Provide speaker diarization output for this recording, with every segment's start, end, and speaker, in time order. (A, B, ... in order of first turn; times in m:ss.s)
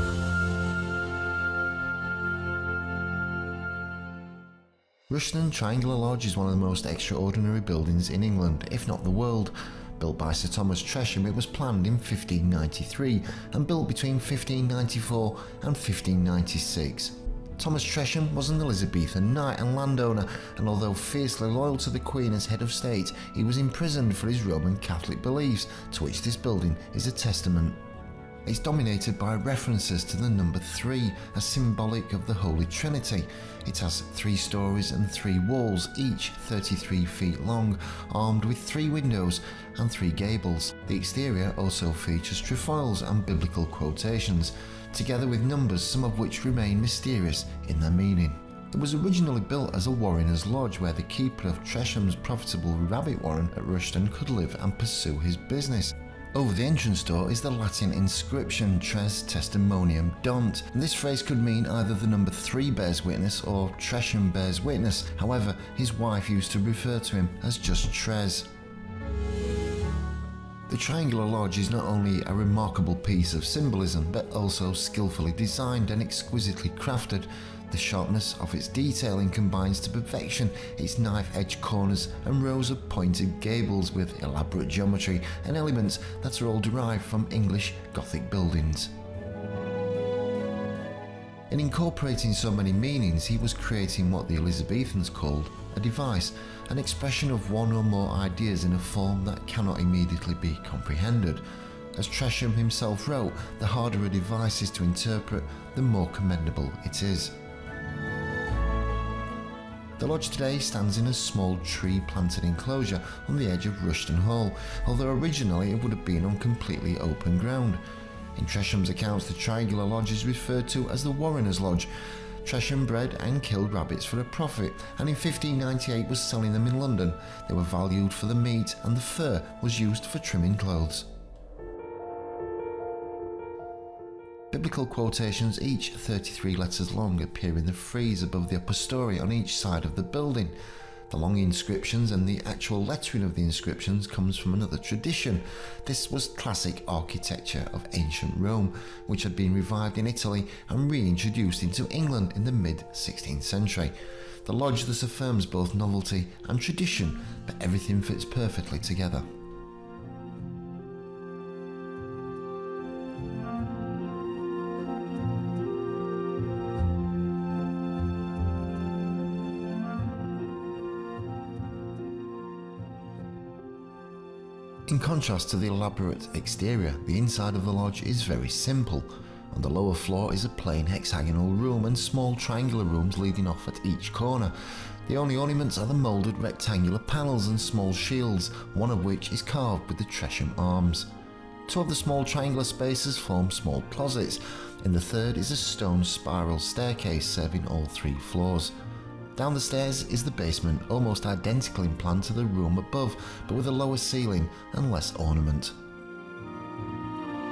0:05.1-0:27.8 A
0:28.4-1:08.5 A
1:10.7-1:28.9 A
1:31.5-1:47.3 A
1:50.0-1:57.8 A
1:58.4-2:01.9 A
2:02.4-2:11.1 A
2:14.5-2:20.6 A
2:21.1-2:39.2 A
2:54.9-3:11.1 A
3:11.7-3:18.7 A
3:19.3-3:25.7 A